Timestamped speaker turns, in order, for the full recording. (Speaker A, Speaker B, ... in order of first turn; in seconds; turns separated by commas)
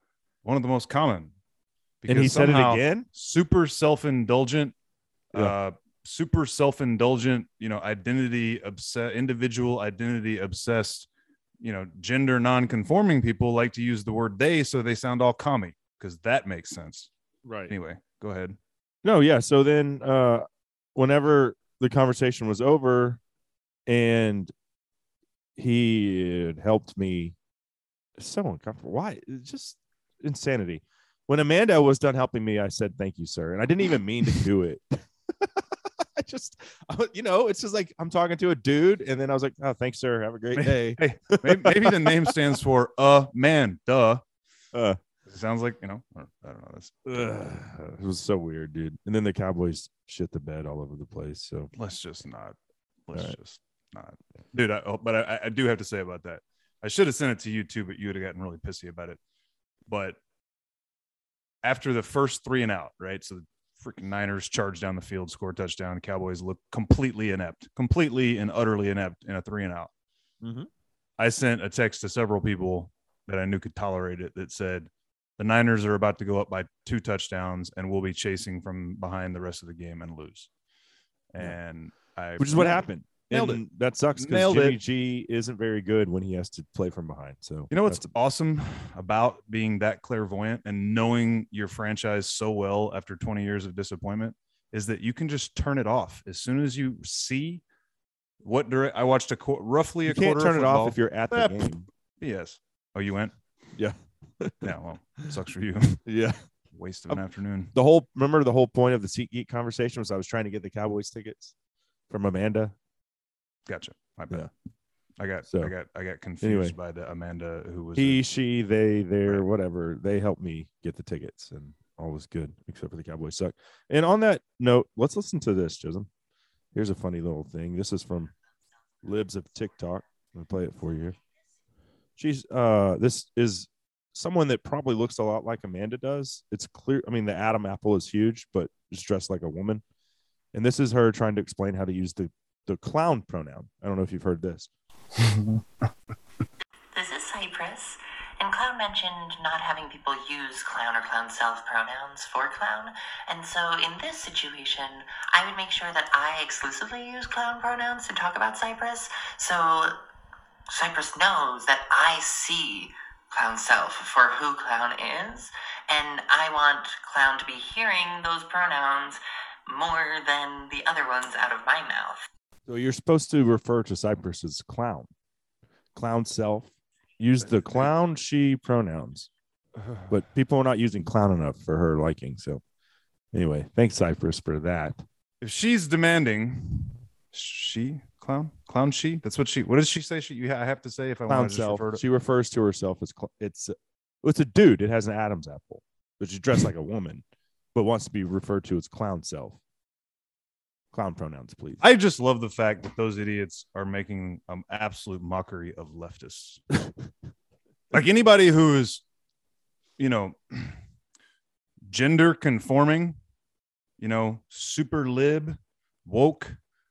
Speaker A: 0.4-1.3, Speaker A: 2.0-4.7, Speaker B: 2.1-3.0, Speaker A: 5.3-11.1, Speaker A: 11.6-17.1, Speaker B: 17.4-17.7, Speaker A: 17.7-18.6, Speaker B: 19.0-23.2, Speaker B: 23.9-24.5, Speaker B: 25.6-27.3, Speaker B: 28.2-35.6, Speaker B: 36.2-42.3, Speaker A: 40.5-44.2, Speaker A: 45.2-47.5, Speaker B: 47.0-51.7, Speaker A: 51.8-59.2, Speaker A: 59.9-60.2, Speaker A: 61.6-69.9, Speaker B: 70.4-70.7, Speaker A: 71.2-80.5, Speaker A: 81.3-83.6, Speaker B: 82.4-88.1, Speaker A: 84.2-84.8, Speaker A: 87.7-97.6, Speaker A: 98.4-103.3, Speaker B: 100.1-101.9, Speaker B: 103.8-104.7, Speaker A: 104.6-106.0, Speaker B: 106.0-106.4, Speaker A: 106.7-107.7, Speaker B: 107.7-111.5, Speaker B: 112.1-112.7, Speaker A: 113.7-114.5, Speaker A: 115.2-118.2, Speaker B: 115.5-115.7, Speaker B: 116.4-116.7, Speaker B: 118.0-126.1, Speaker B: 126.7-128.3, Speaker B: 129.0-131.2, Speaker B: 132.2-139.8, Speaker B: 140.5-144.7, Speaker A: 145.2-145.6, Speaker C: 146.9-160.0, Speaker C: 160.7-172.3, Speaker B: 172.7-175.1, Speaker B: 175.9-179.3, Speaker A: 177.4-177.9, Speaker A: 179.8-180.2, Speaker B: 180.1-182.6, Speaker B: 183.3-185.0, Speaker A: 185.4-192.0, Speaker B: 191.3-197.2, Speaker B: 197.7-199.6, Speaker B: 200.9-201.8, Speaker A: 201.8-206.7, Speaker A: 207.9-209.0, Speaker A: 210.0-210.8, Speaker A: 211.9-213.2, Speaker A: 214.0-216.6